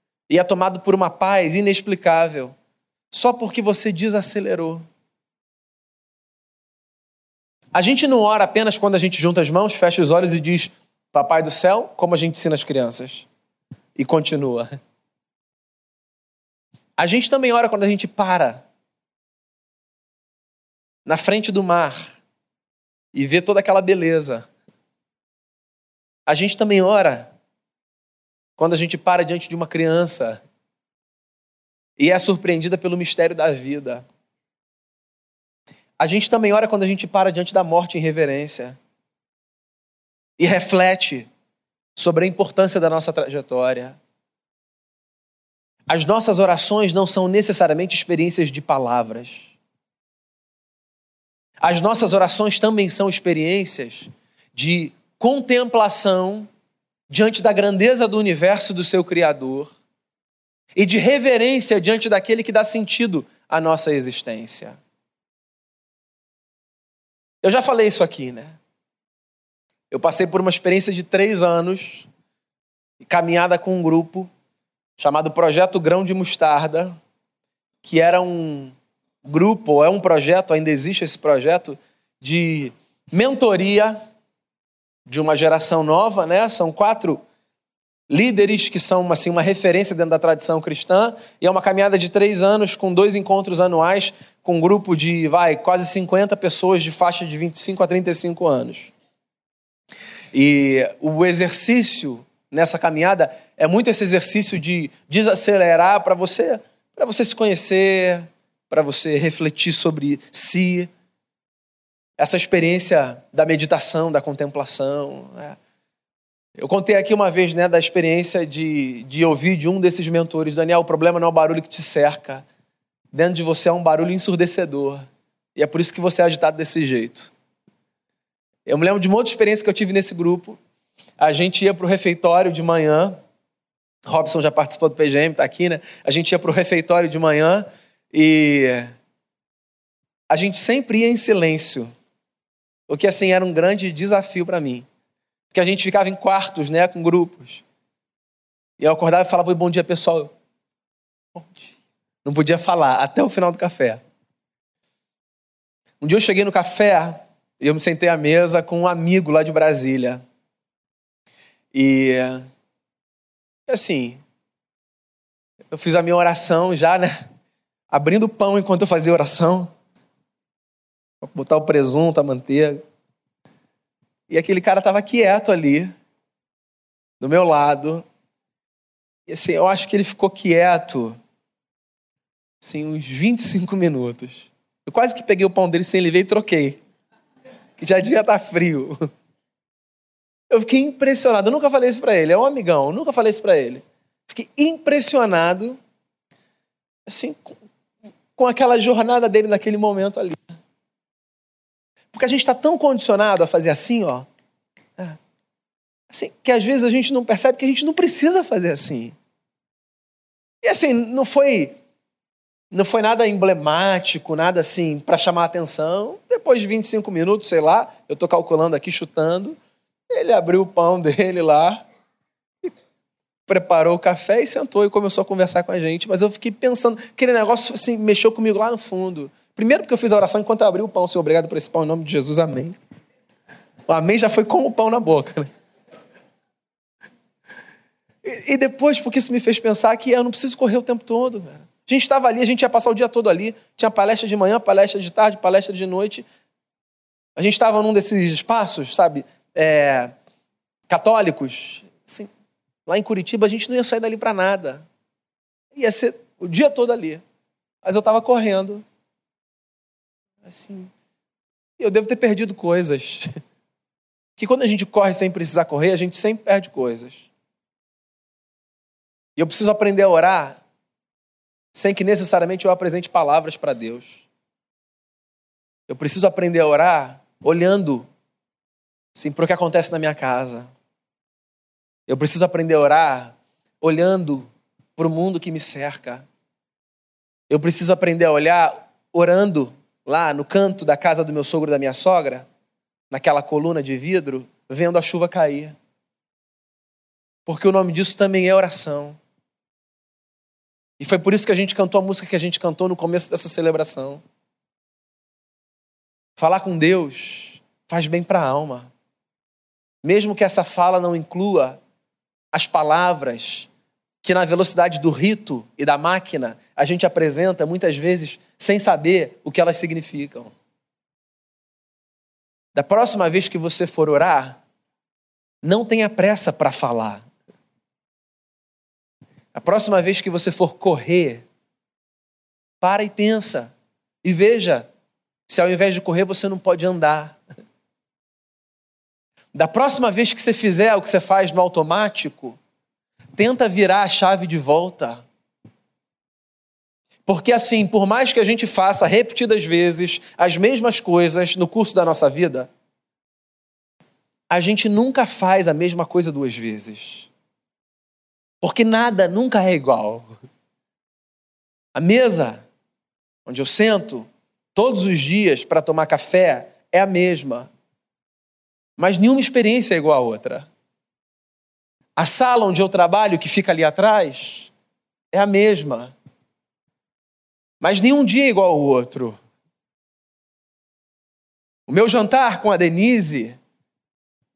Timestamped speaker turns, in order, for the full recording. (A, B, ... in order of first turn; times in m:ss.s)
0:00.3-0:02.5 A
0:03.1-0:04.8 A
0:07.7-0:13.3 A
0:14.0-0:14.7 A
0:17.0-0:18.6 A
0:21.0-0:22.2 A
0:23.1-0:24.5 A
0:26.3-0:27.3 A
0:28.6-0:30.4 A
0:32.0-0:34.0 A
0:36.0-0:38.8 A
0:40.4-0:41.3 A
0:42.0-0:44.0 A
0:45.9-0:49.5 A
0:51.6-0:56.5 A
0:57.1-0:59.7 A
1:00.8-1:04.8 A
1:07.4-1:08.6 A
1:09.9-1:12.1 A
1:13.0-1:14.3 A
1:15.0-1:17.0 A
1:17.8-1:24.0 A
1:25.1-1:27.2 A
1:28.1-1:38.9 A
1:40.3-1:50.9 A
1:52.2-1:55.6 A
1:56.6-2:02.4 A
2:03.1-2:05.0 A
2:05.5-2:07.3 A
2:08.6-2:10.6 A
2:11.2-2:13.2 A
2:14.0-2:18.9 A
2:20.3-2:21.9 A
2:22.9-2:24.9 A
2:25.5-2:27.6 A
2:28.8-2:30.3 A
2:31.3-2:34.0 A
2:36.0-2:40.2 A
2:41.7-2:42.4 A
2:43.7-2:44.2 A
2:45.7-2:47.2 A
2:47.9-2:49.7 A
2:51.2-2:52.8 A
2:54.3-2:55.9 A
2:57.2-2:58.0 A
2:59.3-3:01.2 A
3:02.6-3:06.8 A
3:07.8-3:09.0 A
3:10.5-3:15.8 A
3:17.0-3:17.6 A
3:18.3-3:20.6 A
3:22.1-3:24.3 A
3:26.1-3:29.2 A
3:30.6-3:31.8 A
3:32.7-3:39.6 A
3:40.1-3:41.9 A
3:43.5-3:52.8 A
3:53.9-3:55.5 A
3:58.2-4:06.3 A
4:07.4-4:10.1 A
4:10.9-4:12.3 A
4:12.8-4:14.8 A
4:15.7-4:17.2 A
4:17.8-4:18.8 A
4:20.4-4:20.9 A
4:21.8-4:23.3 A
4:24.4-4:27.3 A
4:29.4-4:30.6 A
4:31.7-4:34.2 A
4:35.9-4:38.1 A
4:39.1-4:40.7 A
4:42.1-4:46.3 A
4:47.5-4:52.5 A
4:53.1-4:55.8 A
4:57.4-4:59.2 A
5:01.0-5:04.2 A
5:06.4-5:08.9 A
5:10.0-5:11.8 A
5:12.5-5:13.7 A
5:14.2-5:20.5 A
5:22.7-5:24.6 A
5:25.6-5:27.2 A
5:29.5-5:31.4 A
5:32.8-5:33.7 A
5:34.2-5:34.9 A
5:35.5-5:37.4 A
5:39.5-5:42.6 A
5:43.4-5:45.2 A
5:47.2-5:52.7 A
5:54.5-5:57.3 A
5:58.6-6:00.4 A
6:01.9-6:02.6 A
6:03.4-6:07.7 A
6:09.0-6:10.7 A
6:12.2-6:14.7 A
6:15.3-6:16.1 A
6:17.8-6:19.4 A
6:21.9-6:23.6 A